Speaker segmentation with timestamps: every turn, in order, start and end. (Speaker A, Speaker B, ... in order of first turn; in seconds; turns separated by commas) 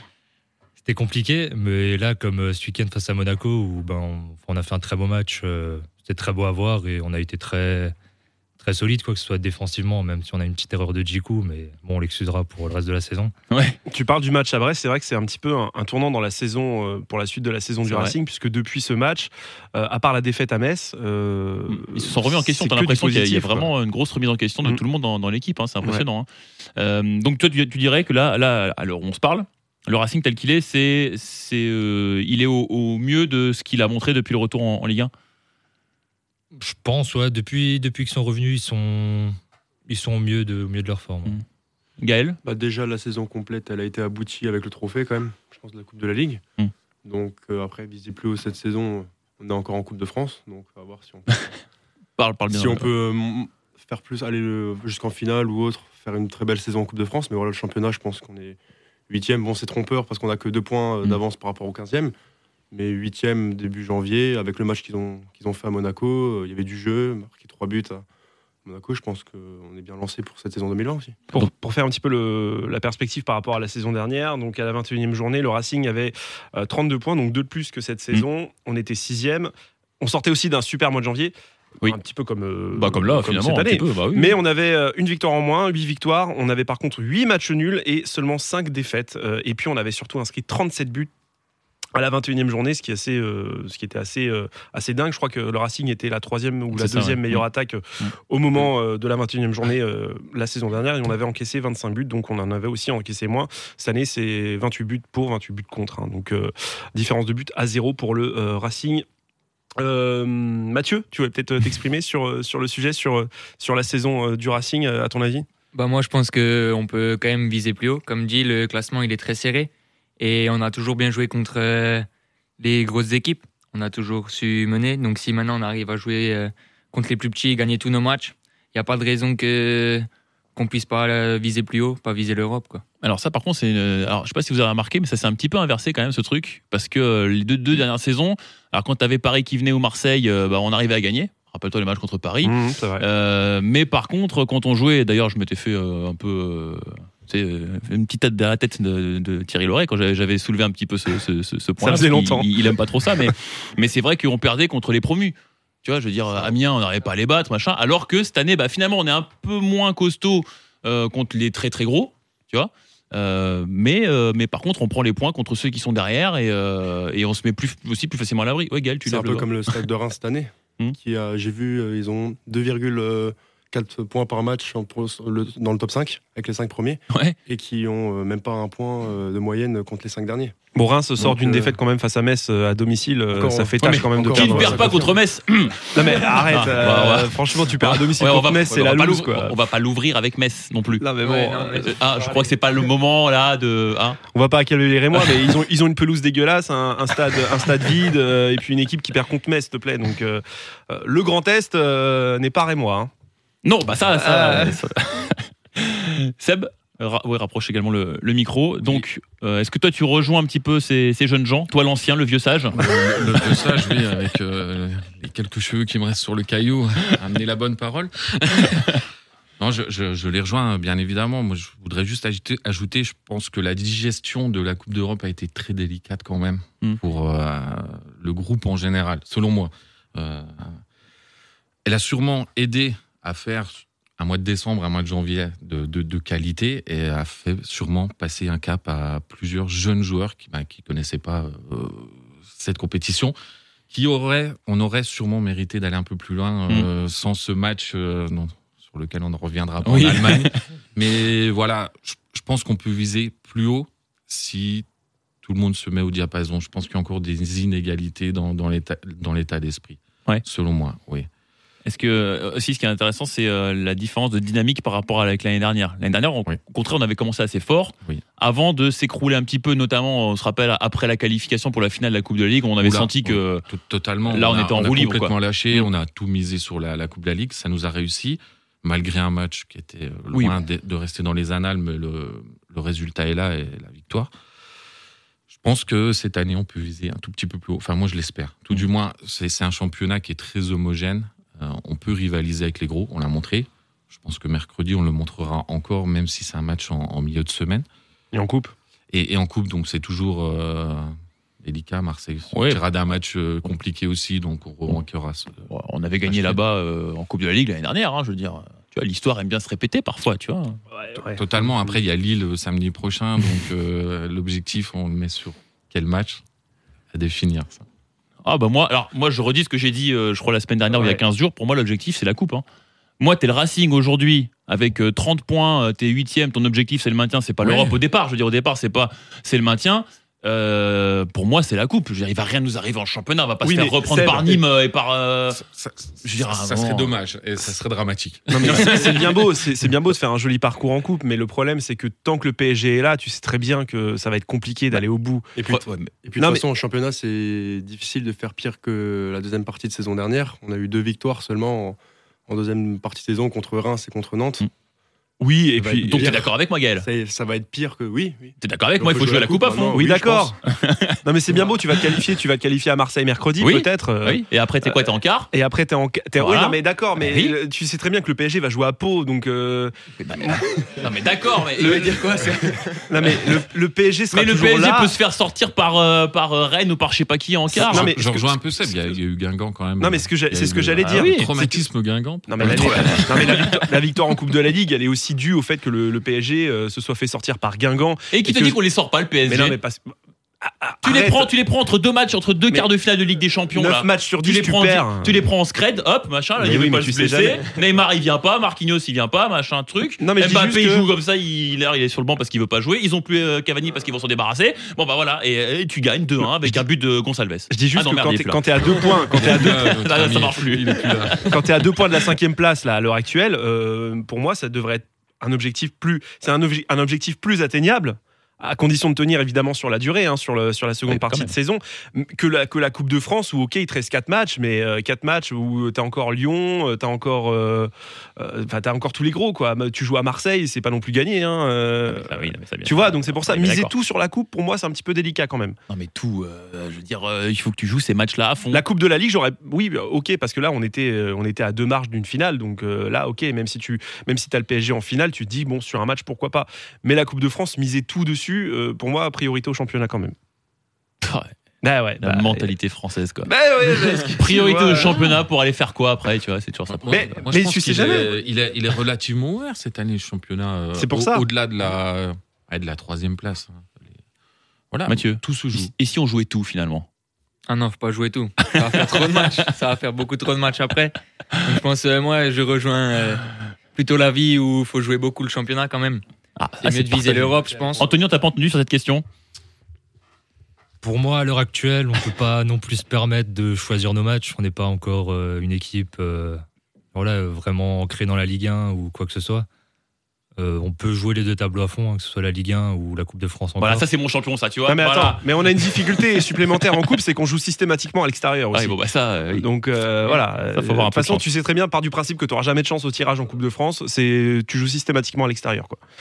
Speaker A: 0.8-8.0, Speaker A: 8.6-13.3, Speaker B: 13.5-13.8, Speaker C: 13.9-23.7, Speaker B: 17.9-18.1, Speaker B: 21.7-35.1, Speaker A: 36.5-39.4, Speaker A: 39.9-41.4, Speaker B: 42.0-42.4, Speaker D: 42.4-46.4, Speaker D: 47.0-51.4, Speaker B: 52.2-52.9, Speaker D: 52.5-58.6, Speaker D: 59.1-62.1, Speaker D: 62.7-68.0, Speaker D: 68.7-71.2, Speaker C: 71.3-91.1, Speaker B: 82.7-84.4, Speaker C: 92.0-109.0, Speaker B: 96.7-97.4, Speaker B: 98.0-98.7, Speaker C: 109.8-115.5, Speaker E: 115.7-122.1, Speaker E: 122.6-132.8, Speaker B: 133.0-169.8, Speaker C: 142.4-143.0, Speaker C: 151.8-153.3, Speaker D: 169.0-180.6, Speaker B: 177.1-177.4, Speaker C: 180.8-185.0, Speaker D: 181.2-181.8, Speaker D: 183.3-185.2, Speaker B: 183.8-191.1, Speaker C: 185.9-189.6, Speaker C: 191.0-192.0, Speaker E: 191.2-192.5, Speaker B: 191.8-194.2, Speaker C: 194.3-203.1, Speaker B: 195.2-195.5, Speaker B: 203.7-214.0, Speaker C: 204.1-204.8, Speaker F: 212.7-218.9, Speaker B: 218.6-219.0, Speaker F: 219.6-230.8, Speaker F: 231.8-243.4, Speaker F: 243.9-254.9, Speaker B: 249.8-250.6, Speaker F: 255.4-261.3, Speaker B: 261.9-273.7, Speaker F: 272.8-284.3, Speaker B: 274.3-275.9, Speaker B: 280.3-280.6, Speaker F: 285.5-297.9, Speaker C: 298.3-298.7, Speaker F: 299.1-305.7, Speaker B: 302.5-302.8, Speaker B: 305.7-310.8, Speaker F: 306.2-306.6, Speaker C: 310.9-311.7, Speaker F: 311.3-316.4, Speaker F: 317.1-317.8, Speaker B: 318.4-322.6, Speaker C: 321.0-321.2, Speaker B: 323.2-335.6, Speaker F: 327.6-327.9, Speaker C: 333.6-334.6, Speaker F: 335.5-339.0, Speaker B: 336.2-337.1, Speaker C: 338.5-345.5, Speaker B: 338.6-339.5, Speaker D: 345.6-354.7, Speaker B: 345.7-346.1, Speaker C: 346.4-346.6, Speaker C: 355.4-356.4, Speaker D: 355.8-360.6, Speaker B: 355.8-357.1, Speaker B: 358.6-360.1, Speaker C: 359.9-360.6, Speaker B: 360.7-361.2, Speaker C: 361.2-370.7, Speaker B: 361.9-362.2, Speaker B: 363.6-365.5, Speaker B: 366.4-367.6, Speaker B: 370.2-372.7, Speaker E: 371.8-373.1, Speaker C: 373.1-375.1, Speaker B: 373.2-373.7, Speaker B: 374.3-378.1, Speaker C: 377.7-379.1, Speaker F: 377.8-383.6, Speaker C: 380.0-381.9, Speaker B: 381.0-381.5, Speaker C: 382.5-388.8, Speaker B: 382.6-383.9, Speaker B: 388.3-389.8, Speaker C: 389.5-391.5, Speaker B: 391.0-411.6, Speaker C: 393.7-395.4, Speaker C: 396.6-397.6, Speaker C: 400.2-401.1, Speaker C: 406.4-406.8, Speaker C: 407.7-410.1, Speaker F: 409.3-411.7, Speaker C: 411.5-435.8, Speaker B: 421.1-421.5, Speaker B: 432.1-433.9, Speaker B: 435.9-438.9, Speaker C: 438.7-450.4, Speaker B: 451.2-451.5, Speaker C: 451.8-452.7, Speaker B: 452.2-453.5, Speaker C: 453.5-455.4, Speaker B: 454.4-457.4, Speaker F: 456.9-464.2, Speaker C: 457.1-458.3, Speaker C: 461.0-461.5, Speaker F: 464.9-465.9, Speaker B: 465.1-467.1, Speaker E: 467.7-476.2, Speaker B: 468.7-469.7, Speaker B: 476.6-479.2, Speaker E: 476.8-478.2, Speaker A: 481.0-486.6, Speaker A: 487.1-489.7, Speaker A: 490.6-494.1, Speaker B: 493.8-497.1, Speaker C: 494.9-499.0, Speaker B: 498.7-499.7, Speaker C: 499.5-506.0, Speaker B: 500.2-501.5